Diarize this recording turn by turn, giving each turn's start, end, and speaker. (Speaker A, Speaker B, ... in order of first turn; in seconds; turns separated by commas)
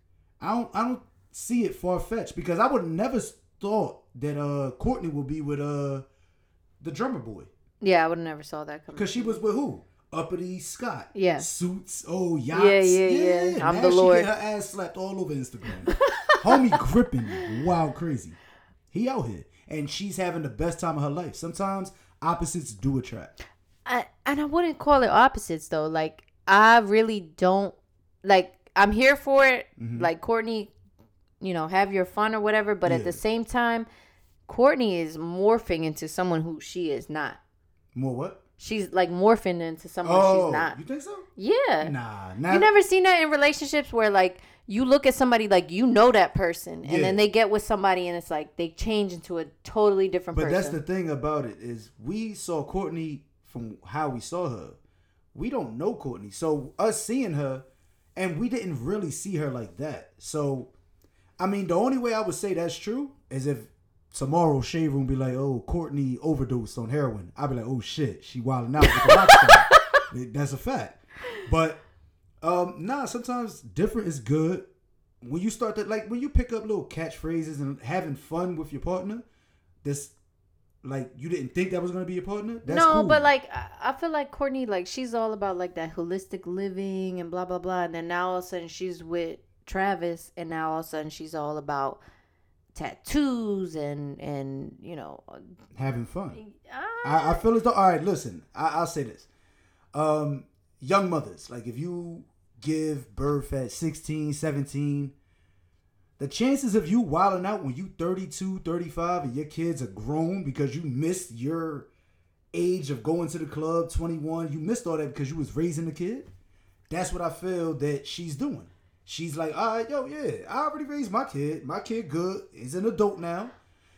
Speaker A: 0.4-6.0, Speaker A: 6.8-7.5, Speaker B: 7.8-9.4, Speaker A: 8.9-18.4, Speaker B: 11.1-11.5, Speaker B: 12.5-14.3, Speaker B: 16.0-16.8, Speaker A: 18.9-23.3, Speaker B: 23.9-30.7, Speaker A: 29.8-30.1, Speaker B: 31.4-33.9, Speaker A: 32.8-33.2, Speaker B: 34.5-37.4, Speaker A: 37.9-38.4, Speaker B: 38.6-40.8, Speaker A: 40.0-41.2, Speaker B: 41.4-41.9, Speaker A: 41.8-42.7, Speaker B: 42.5-50.8, Speaker A: 46.8-47.2, Speaker A: 50.3-54.8, Speaker A: 55.3-57.6, Speaker A: 58.1-60.7, Speaker A: 61.4-71.8, Speaker B: 68.9-70.0, Speaker A: 72.4-74.7, Speaker A: 75.2-79.2, Speaker A: 79.8-80.1, Speaker A: 80.8-83.3, Speaker B: 82.7-92.0, Speaker B: 92.7-95.5, Speaker A: 95.7-96.4, Speaker B: 96.3-97.4, Speaker A: 97.0-99.3, Speaker A: 99.9-105.1, Speaker A: 106.2-111.9, Speaker A: 112.5-116.3, Speaker A: 116.9-123.5